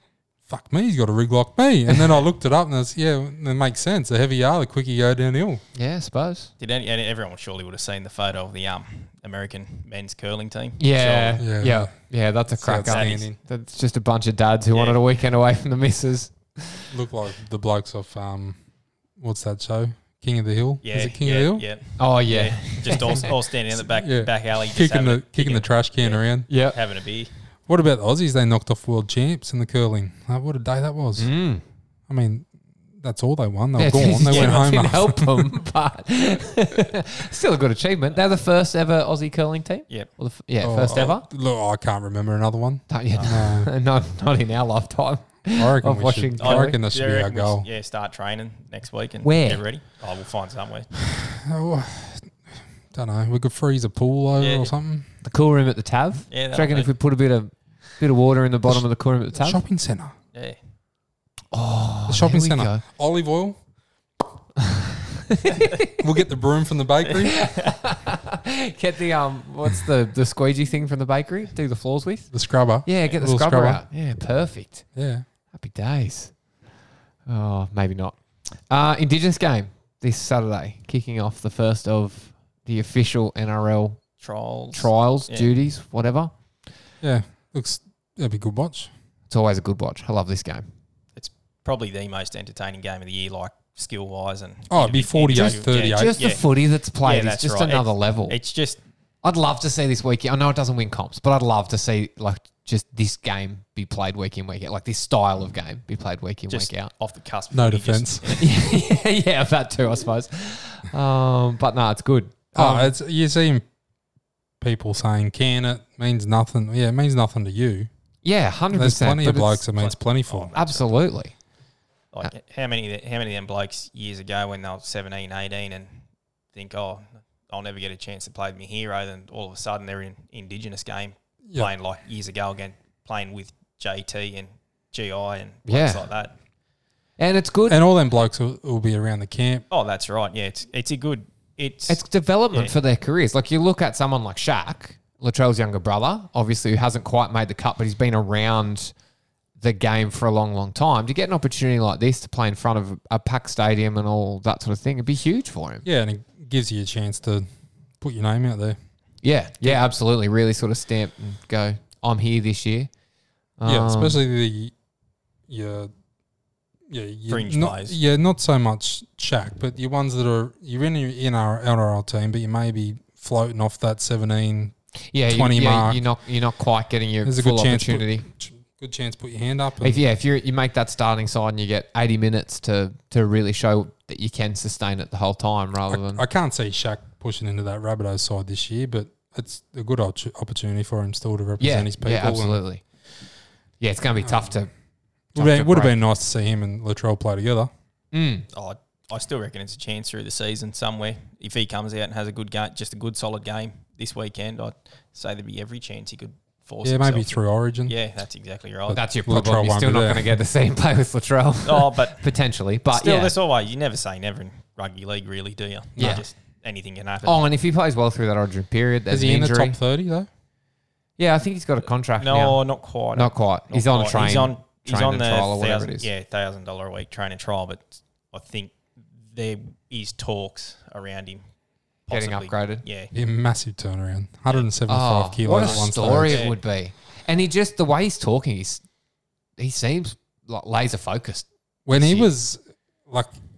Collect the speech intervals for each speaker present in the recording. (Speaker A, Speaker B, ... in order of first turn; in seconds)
Speaker A: 0.5-5.6, 11.4-11.9, 12.6-13.4, 16.9-18.6, 19.2-21.6, 23.9-26.5, 27.7-31.3, 32.1-32.5, 33.0-35.5, 40.6-43.7, 45.5-47.7, 51.2-52.4, 52.9-55.0, 59.4-60.1, 62.1-63.6, 66.0-67.4, 72.3-73.8, 74.9-75.2, 87.0-88.9, 94.7-96.3, 107.5-108.2, 112.5-113.6, 114.6-117.9, 118.7-120.5, 137.7-139.6, 155.8-157.4, 158.0-158.8, 163.6-164.7, 165.5-165.9, 166.9-174.7, 175.3-176.0, 177.2-180.0, 185.9-192.6, 194.2-194.5, 195.3-197.7, 206.8-207.9, 208.9-210.3, 219.1-220.3, 233.1-236.4, 241.9-243.3
Speaker B: 5.7-6.5, 10.8-16.8, 22.0-23.3, 26.5-26.8, 31.2-31.6, 33.8-41.2, 42.9-46.8, 49.2-49.6, 55.2-59.6, 61.5-62.8, 65.3-65.9, 67.3-72.3, 72.8-74.8, 75.5-76.3, 77.3-84.0, 84.7-86.3, 89.3-90.7, 95.3-98.3, 99.2-106.9, 108.3-112.9, 118.2-119.6, 120.5-121.3, 135.7-136.1, 137.2-137.8, 141.9-148.9, 149.6-155.8, 159.2-162.9, 163.6-164.2, 175.1-178.2, 179.8-186.2, 191.6-192.8, 193.8-194.7, 195.3-195.9, 198.1-198.4, 208.9-213.3, 217.2-219.8, 221.2-222.6, 223.1-226.1, 232.1-232.8, 234.9-238.8, 239.6-242.3
Speaker C: 6.6-11.4, 12.8-13.3, 14.7-15.0, 20.8-27.3, 34.3-34.6, 46.4-50.9, 54.4-54.7, 56.3-56.9, 67.0-67.8, 84.2-85.5, 91.2-96.4, 97.0-98.8, 106.5-108.6, 119.7-121.0, 122.1-136.3, 139.7-142.7, 167.3-168.0, 198.5-209.0, 211.6-212.3, 212.9-217.4, 222.2-231.4, 232.1-233.1, 235.5-236.6